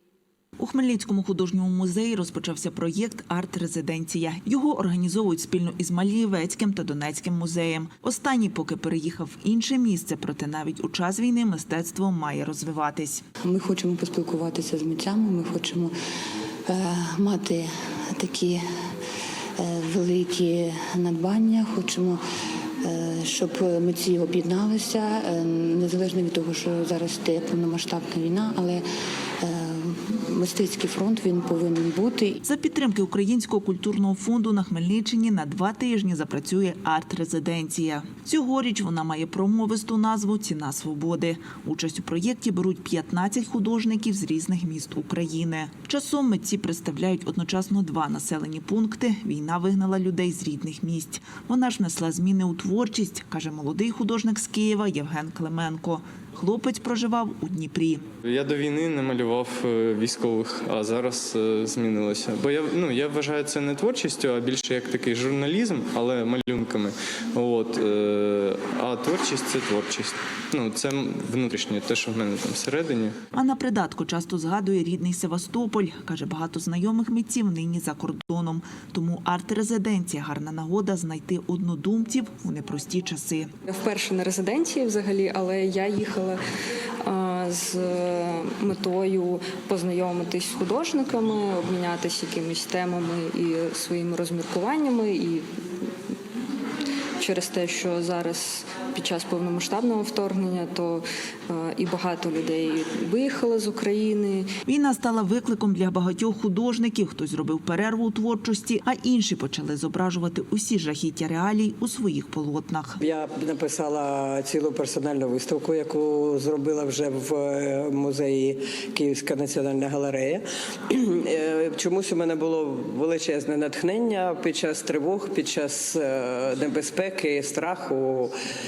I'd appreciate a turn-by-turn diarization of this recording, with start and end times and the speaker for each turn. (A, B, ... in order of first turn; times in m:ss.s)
0:00.6-0:13.2 A
0:13.4-0:15.9 B
0:16.6-0:18.9 B
0:19.6-0:22.2 B
0:22.8-0:28.8 B
0:29.4-0:32.4 B
0:32.4-0:58.0 A
0:58.2-1:13.2 C
1:13.3-1:23.5 A
1:23.6-1:26.4 D
1:27.0-1:35.5 D
1:37.2-1:44.5 D
1:44.6-1:53.0 A
1:53.0-2:08.3 E